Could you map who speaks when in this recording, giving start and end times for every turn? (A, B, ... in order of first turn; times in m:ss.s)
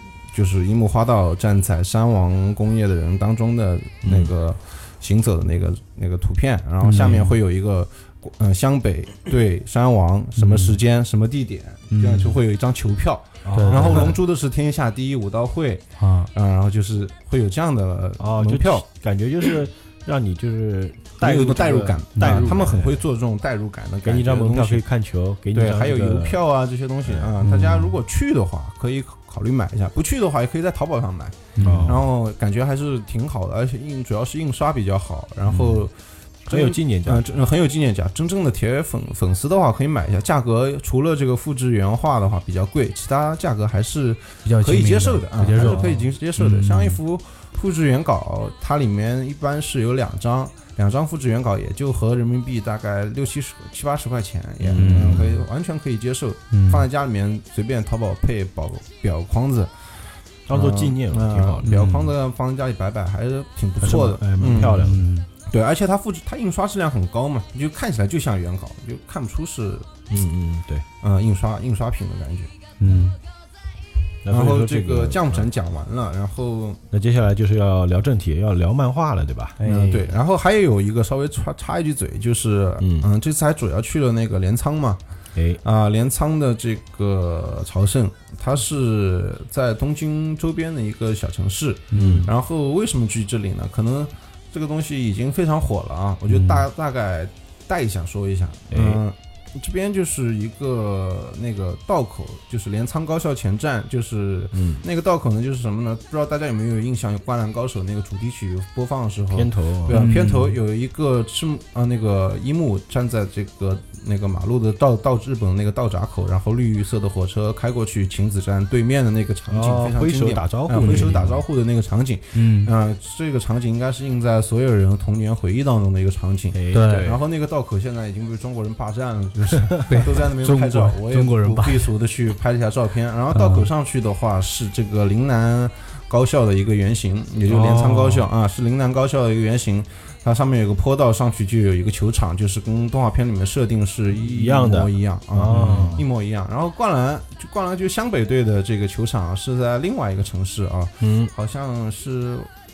0:00.3-0:18.9 A
0:04.0-0:04.3 B
0:06.8-0:07.4 C
0:10.4-0:10.8 C
0:11.9-0:12.4 C
0:13.4-0:14.2 B
0:13.5-0:14.1 C
0:16.0-0:16.3 C
0:18.2-0:23.0 B
0:21.2-0:24.8 A
0:22.2-0:22.5 C
0:24.0-0:26.4 B
0:25.5-0:35.9 A
0:27.0-0:27.3 B
0:27.4-0:28.0 C
0:31.6-0:32.0 C
0:31.6-0:32.0 B
0:36.4-0:59.7 A
0:36.5-0:37.2 B
0:44.4-0:47.0 C
0:45.6-0:45.9 B
0:54.6-0:55.3 B
0:54.7-0:55.4 C
0:56.5-0:56.9 C
1:00.5-1:01.9 B
1:00.5-1:04.8 A
1:01.6-1:02.1 C
1:03.8-1:05.1 B
1:04.5-1:05.3 C
1:05.5-1:09.9 A
1:10.1-1:10.8 B
1:11.0-1:12.5 A
1:12.8-1:13.2 C
1:12.8-1:13.1 B
1:14.2-1:15.5 B
1:14.3-1:16.8 A
1:16.9-1:19.6 B
1:19.6-1:20.1 C
1:19.6-1:25.0 A
1:22.8-1:23.1 B
1:25.4-1:25.6 B
1:25.6-2:32.5 A
1:31.9-1:32.3 C
1:31.9-1:32.3 B
1:36.3-1:36.6 C
1:38.7-1:39.0 B
1:44.5-1:44.8 B
1:49.3-1:50.0 B
1:49.9-1:50.6 C
1:59.5-2:01.4 B
2:00.8-2:01.2 C
2:02.3-2:02.7 C
2:06.5-2:07.2 B
2:06.7-2:07.1 C
2:09.9-2:11.9 C
2:13.3-2:13.7 C
2:17.4-2:18.3 B
2:24.1-2:26.0 B
2:25.5-2:26.0 C
2:31.0-2:31.3 B